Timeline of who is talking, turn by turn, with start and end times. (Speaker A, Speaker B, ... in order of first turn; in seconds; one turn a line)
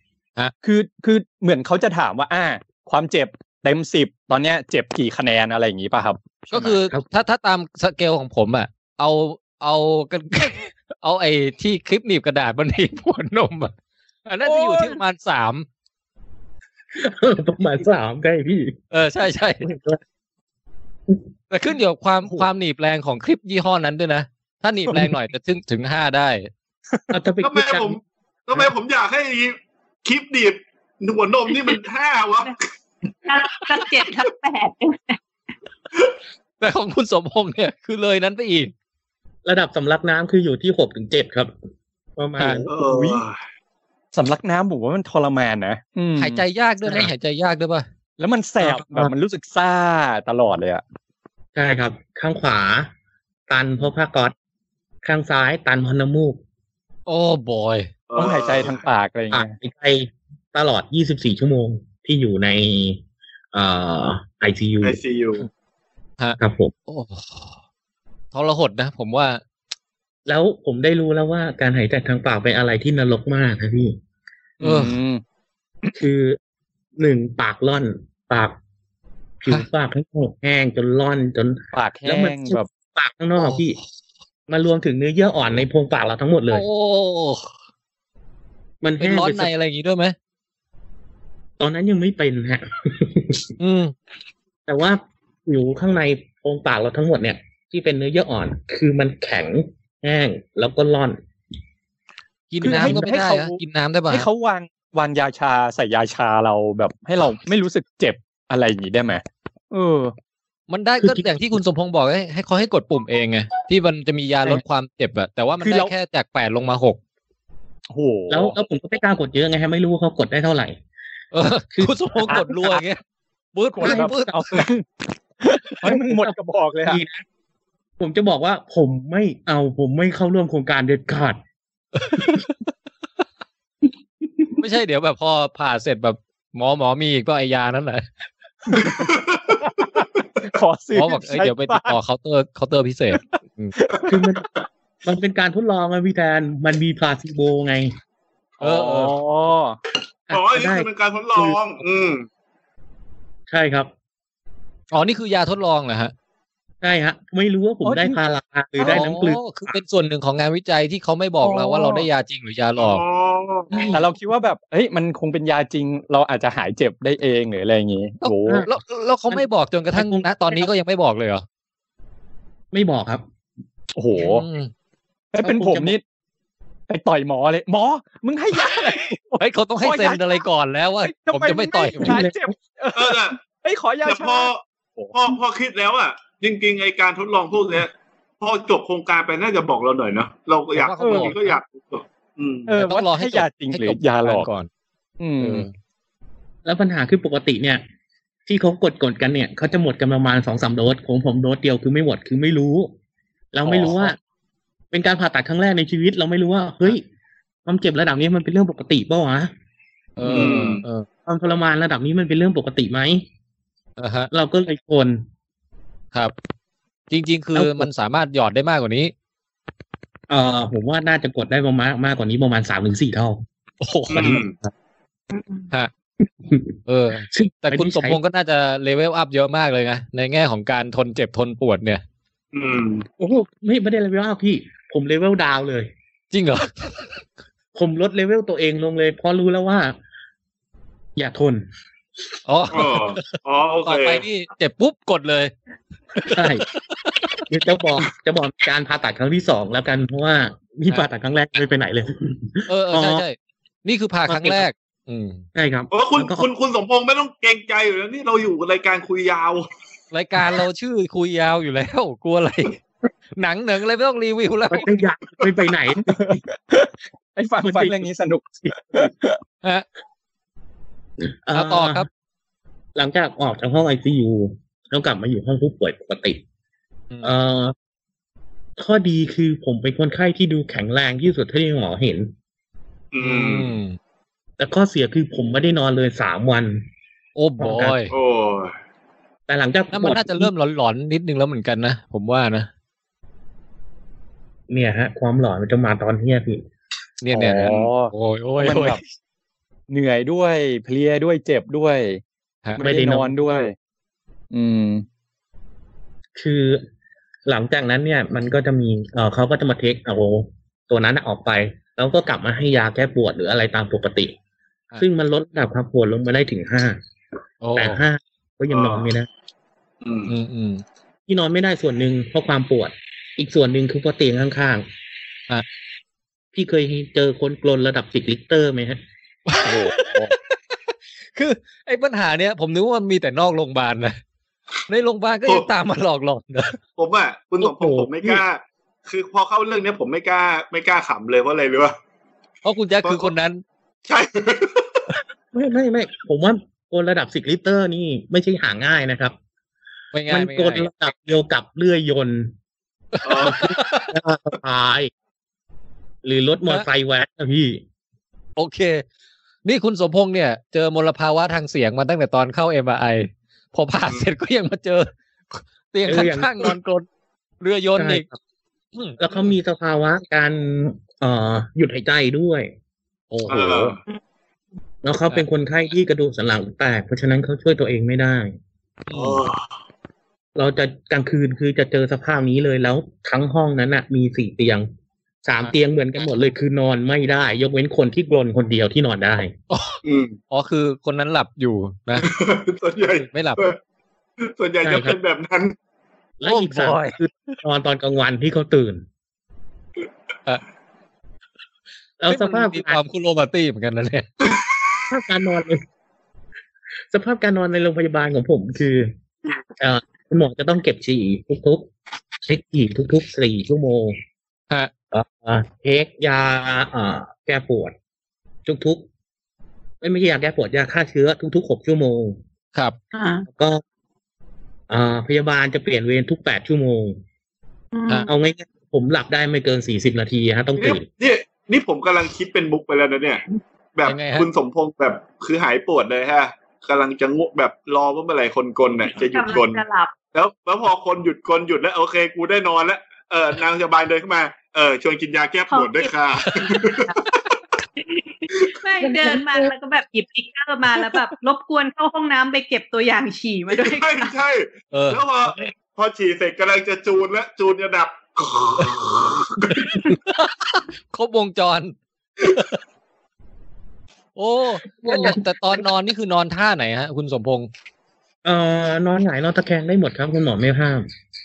Speaker A: 0.6-6.8
Speaker B: 6.5-13.7
Speaker B: 14.2-15.7
Speaker A: 14.4-15.0
Speaker C: 16.9-18.8
Speaker B: 18.9-19.6
Speaker C: 19.6-20.0
Speaker B: 21.5-26.5
Speaker C: 27.1-28.0
Speaker D: 27.4-32.6
Speaker E: 33.2-35.2
Speaker B: 36.6-38.7
Speaker C: 39.4-41.5
Speaker C: 42.1-42.7
Speaker B: 42.4-42.6
Speaker D: 42.7-43.4
Speaker A: 42.7-43.2
Speaker A: 44.1-47.1
Speaker B: 46.2-47.9
Speaker A: 48.2-50.8
Speaker C: 48.6-49.1
Speaker C: 51.5-52.9
Speaker C: 53.5-54.3
Speaker C: 55.0-56.4
Speaker B: 57.1-57.9
Speaker D: 58.1-58.8
Speaker A: 58.2-59.5
Speaker C: 59.3-65.0
Speaker D: 64.8-65.5
Speaker B: 66.2-67.5
Speaker C: 66.4-66.7
Speaker B: 68.3-69.4
Speaker C: 70.2-74.0
Speaker A: 74.6-75.2
Speaker B: 74.6-75.0
Speaker C: 75.9-76.4
Speaker C: 77.0-78.6
Speaker C: 79.4-83.8
Speaker A: 81.7-82.7
Speaker C: 84.5-86.6
Speaker B: 86.5-87.5
Speaker C: 88.8-89.5
Speaker B: 89.0-90.1
Speaker C: 91.6-93.5
Speaker B: 93.6-93.9
Speaker C: 94.7-101.2
Speaker B: 102.5-104.3
Speaker A: 102.6-110.1
Speaker C: 102.6-103.1
Speaker B: 110.7-117.0
Speaker C: 111.0-111.5
Speaker A: 115.6-115.9
Speaker A: 117.9-118.5
Speaker C: 118.3-120.8
Speaker B: 121.3-123.0
Speaker C: 121.7-122.8
Speaker B: 123.5-124.6
Speaker A: 123.7-124.8
Speaker C: 123.8-124.1
Speaker A: 125.4-127.0
Speaker C: 125.8-126.3
Speaker C: 126.9-127.2
Speaker C: 128.0-131.4
Speaker B: 132.1-132.4
Speaker B: 134.6-138.1
Speaker A: 138.7-142.0
Speaker D: 138.9-139.7
Speaker B: 140.9-143.7
Speaker A: 143.2-144.3
Speaker C: 144.1-144.5
Speaker C: 145.0-147.9
Speaker B: 148.6-149.2
Speaker A: 148.6-149.8
Speaker C: 150.3-151.6
Speaker D: 150.3-152.2
Speaker C: 153.5-153.9
Speaker B: 154.9-156.1
Speaker C: 156.8-159.4
Speaker A: 157.8-158.2
Speaker A: 158.8-159.1
Speaker B: 158.9-163.0
Speaker A: 161.4-162.1
Speaker D: 162.8-163.8
Speaker C: 163.7-164.0
Speaker A: 163.9-168.7
Speaker B: 168.2-171.4
Speaker C: 169.3-170.7
Speaker C: 172.7-173.2
Speaker A: 173.9-174.4
Speaker B: 174.1-174.7
Speaker A: 175.3-176.0
Speaker C: 175.4-175.9
Speaker A: 176.9-180.4
Speaker B: 179.4-182.2
Speaker A: 181.0-185.3
Speaker C: 182.0-182.5
Speaker D: 182.9-183.4
Speaker D: 184.0-184.6
Speaker D: 185.1-192.7
Speaker B: 190.7-191.6
Speaker A: 191.0-191.4
Speaker A: 192.7-194.5
Speaker B: 192.8-194.7
Speaker A: 195.2-195.7
Speaker B: 195.4-195.7
Speaker C: 196.6-197.8
Speaker C: 198.4-202.9
Speaker C: 203.5-204.2
Speaker A: 203.6-204.0
Speaker C: 204.9-207.0
Speaker C: 207.6-209.5
Speaker B: 210.2-211.1
Speaker D: 210.3-210.8
Speaker C: 211.3-213.2
Speaker B: 214.0-214.3
Speaker C: 214.3-215.2
Speaker B: 217.1-219.1
Speaker C: 217.5-217.9
Speaker C: 220.3-223.4
Speaker B: 223.8-224.4
Speaker D: 224.1-224.5
Speaker C: 224.1-224.7
Speaker E: 225.3-225.7
Speaker C: 226.4-226.7
Speaker B: 226.9-232.0
Speaker C: 227.3-228.2
Speaker D: 232.5-233.0
Speaker C: 233.2-235.9
Speaker B: 236.3-237.1
Speaker C: 237.7-240.0
Speaker C: 241.2-241.7
Speaker B: 242.5-245.5
Speaker D: 242.7-244.2
Speaker B: 246.2-247.2
Speaker C: 246.3-246.7
Speaker C: 247.5-253.2
Speaker B: 252.7-255.4
Speaker C: 254.3-254.6
Speaker C: 255.5-256.5
Speaker D: 255.9-259.7
Speaker B: 260.1-262.8
Speaker B: 263.4-264.9
Speaker C: 264.7-266.4
Speaker A: 266.0-269.4
Speaker C: 267.6-268.1
Speaker C: 271.2-272.1
Speaker B: 271.5-272.1
Speaker C: 272.9-276.4
Speaker C: 277.2-277.7
Speaker C: 278.8-282.3
Speaker D: 283.1-283.8
Speaker B: 283.2-284.0
Speaker C: 284.6-286.9
Speaker B: 287.4-288.1
Speaker C: 287.6-288.0
Speaker D: 288.1-288.7
Speaker C: 289.5-290.5
Speaker B: 289.9-292.7
Speaker C: 294.7-296.6
Speaker B: 297.2-299.0
Speaker A: 297.3-299.0
Speaker A: 299.9-302.2
Speaker C: 302.8-303.7
Speaker A: 302.8-303.7
Speaker A: 304.5-305.0
Speaker C: 306.4-306.8
Speaker C: 307.4-314.3
Speaker C: 315.0-317.0
Speaker B: 317.6-318.0
Speaker C: 317.7-319.3
Speaker D: 318.7-319.1
Speaker D: 320.0-320.3
Speaker B: 320.3-320.8
Speaker C: 321.3-324.9
Speaker C: 326.5-329.0
Speaker B: 329.5-330.3
Speaker A: 329.6-330.3
Speaker B: 331.3-334.2
Speaker B: 334.9-336.7
Speaker D: 337.0-341.9
Speaker C: 337.6-338.4
Speaker B: 342.6-343.6
Speaker D: 343.0-343.3
Speaker D: 344.0-345.0
Speaker C: 345.5-349.3
Speaker B: 350.1-350.9
Speaker C: 350.3-352.5
Speaker B: 353.1-354.1
Speaker D: 353.2-353.8
Speaker C: 353.4-355.1
Speaker C: 356.2-357.8
Speaker B: 358.6-359.0
Speaker B: 359.6-367.0
Speaker C: 366.1-366.8
Speaker B: 367.6-368.2
Speaker C: 367.9-368.4
Speaker C: 369.2-372.7
Speaker B: 373.3-373.6
Speaker C: 373.4-373.9
Speaker D: 373.5-374.0
Speaker C: 375.0-378.5
Speaker B: 379.1-379.4
Speaker D: 379.1-379.6
Speaker C: 380.5-384.9
Speaker C: 385.4-389.5
Speaker B: 389.7-390.0
Speaker D: 390.0-390.4
Speaker B: 390.5-392.3
Speaker D: 392.2-393.8
Speaker B: 393.0-393.7
Speaker D: 394.4-395.7
Speaker C: 394.8-395.2
Speaker C: 396.4-399.1
Speaker B: 396.4-397.2
Speaker C: 402.2-403.0
Speaker B: 402.3-404.3
Speaker D: 404.4-405.0
Speaker C: 405.1-405.8
Speaker C: 407.1-409.1
Speaker C: 409.8-411.9
Speaker C: 412.4-414.2
Speaker C: 415.1-417.9
Speaker C: 418.6-419.1
Speaker C: 420.0-422.4
Speaker E: 423.1-423.4
Speaker C: 423.5-423.8
Speaker C: 424.9-427.2
Speaker E: 427.9-428.3
Speaker C: 428.3-431.0
Speaker D: 430.8-433.4
Speaker D: 433.9-447.4
Speaker B: 434.0-434.5
Speaker E: 439.2-440.1
Speaker E: 445.7-447.2
Speaker E: 448.0-454.3
Speaker C: 449.0-449.7
Speaker D: 453.7-460.0
Speaker B: 454.9-455.2
Speaker B: 460.0-462.8
Speaker B: 464.4-467.7
Speaker C: 465.0-465.4
Speaker C: 468.4-471.1